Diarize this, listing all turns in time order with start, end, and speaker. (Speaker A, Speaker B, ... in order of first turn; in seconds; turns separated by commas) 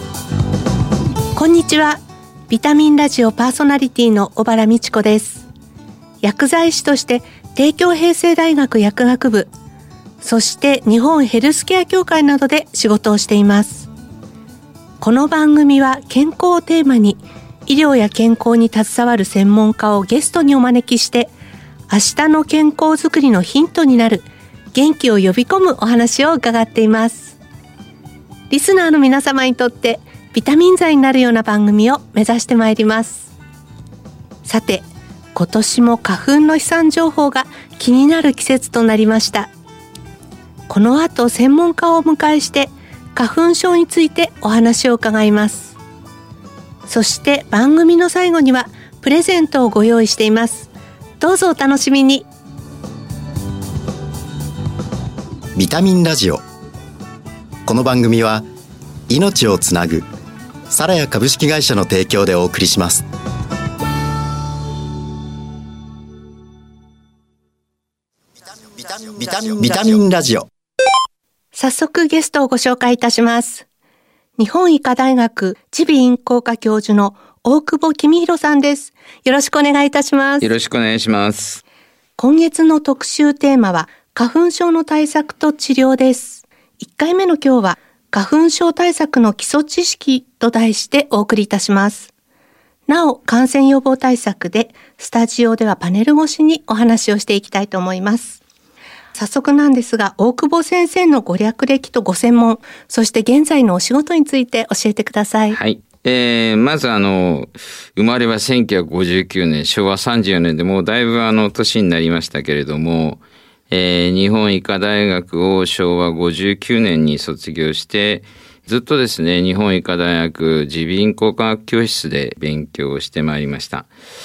Speaker A: 1.4-5.4, Speaker A: 6.2-9.5, Speaker A: 10.2-13.9, Speaker A: 15.0-21.3, Speaker A: 21.9-27.4, Speaker A: 28.5-33.3, Speaker A: 34.4-39.5, Speaker A: 40.7-45.8, Speaker A: 46.9-52.3, Speaker B: 55.5-56.4, Speaker B: 57.6-58.5, Speaker B: 59.1-60.1, Speaker B: 60.7-63.0, Speaker B: 68.7-70.5, Speaker A: 71.5-73.6, Speaker A: 74.4-80.5, Speaker C: 80.4-81.6, Speaker A: 82.2-92.1, Speaker A: 92.9-98.4, Speaker A: 99.1-105.6, Speaker C: 105.5-123.9